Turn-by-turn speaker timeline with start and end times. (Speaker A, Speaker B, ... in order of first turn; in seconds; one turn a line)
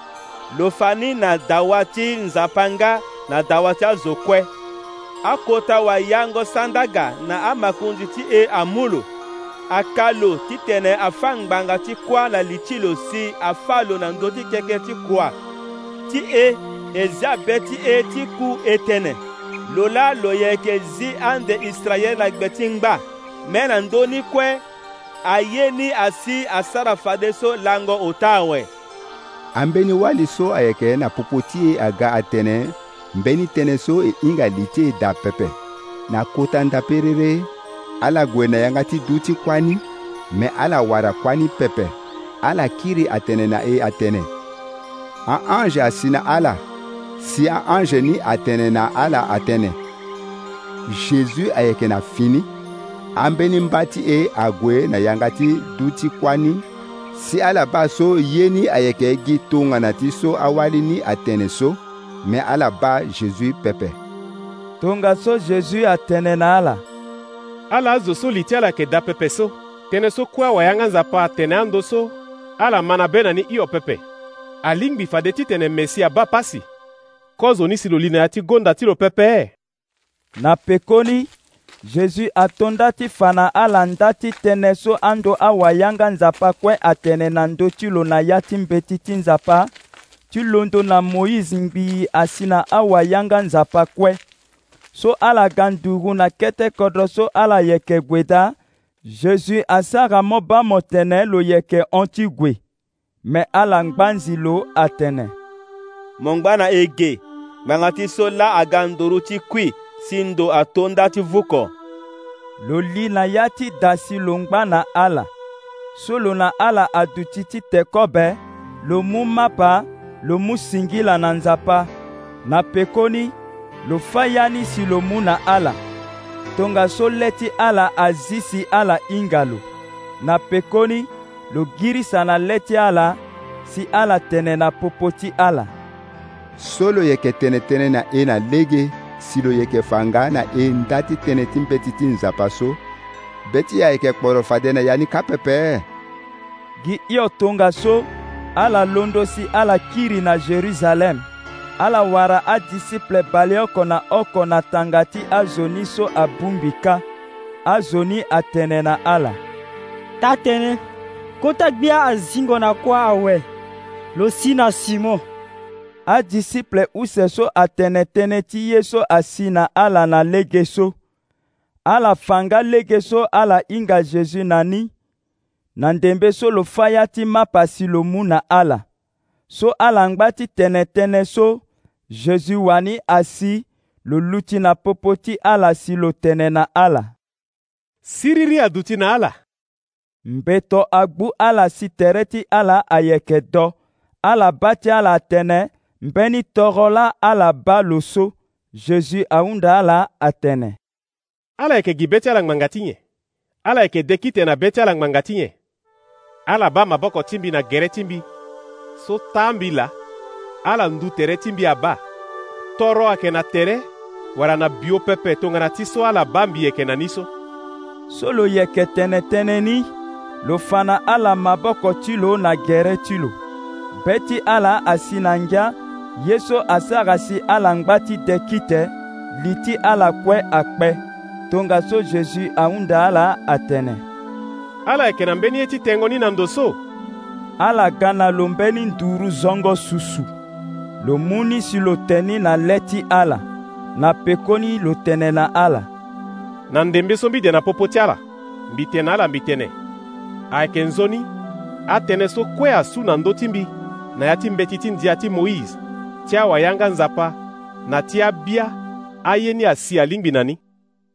Speaker A: 0.5-4.5
Speaker A: 5.2-9.1
Speaker A: 9.7-15.3
Speaker A: 16.1-24.6
Speaker A: 25.2-28.7
Speaker B: 29.6-35.5
Speaker B: 36.1-37.5
Speaker B: 38.0-44.3
Speaker B: 45.3-46.6
Speaker B: 47.2-49.8
Speaker B: 50.9-52.5
Speaker B: 53.1-64.0
Speaker C: 64.8-66.8
Speaker D: 67.7-74.0
Speaker D: 74.6-76.6
Speaker D: 77.4-79.5
Speaker C: 80.4-81.3
Speaker C: 81.8-89.7
Speaker C: 90.3-94.2
Speaker C: 94.9-98.5
Speaker C: 99.0-102.6
Speaker C: 103.2-105.3
Speaker A: 106.2-111.7
Speaker C: 112.6-115.3
Speaker C: 115.9-121.9
Speaker C: 122.4-123.3
Speaker C: 123.8-125.8
Speaker C: 126.5-129.7
Speaker C: 130.2-135.7
Speaker B: 136.6-142.8
Speaker B: 143.5-145.8
Speaker C: 146.8-151.2
Speaker C: 151.8-157.0
Speaker C: 157.7-159.4
Speaker E: 160.2-160.8
Speaker E: 161.4-163.4
Speaker E: 164.1-165.2
Speaker C: 166.1-170.9
Speaker C: 171.8-174.9
Speaker C: 175.8-178.8
Speaker C: 179.5-187.1
Speaker D: 188.0-189.3
Speaker C: 190.2-200.8
Speaker D: 201.6-203.0
Speaker D: 203.6-205.5
Speaker D: 206.5-208.2
Speaker D: 209.0-209.9
Speaker D: 210.7-212.0
Speaker D: 212.8-217.3
Speaker C: 218.1-219.9
Speaker C: 220.4-223.3
Speaker C: 224.0-234.0
Speaker D: 234.8-236.8
Speaker C: 237.6-240.3
Speaker C: 241.0-243.4
Speaker C: 243.9-245.9
Speaker D: 246.7-249.7
Speaker D: 250.5-251.3
Speaker D: 251.9-260.6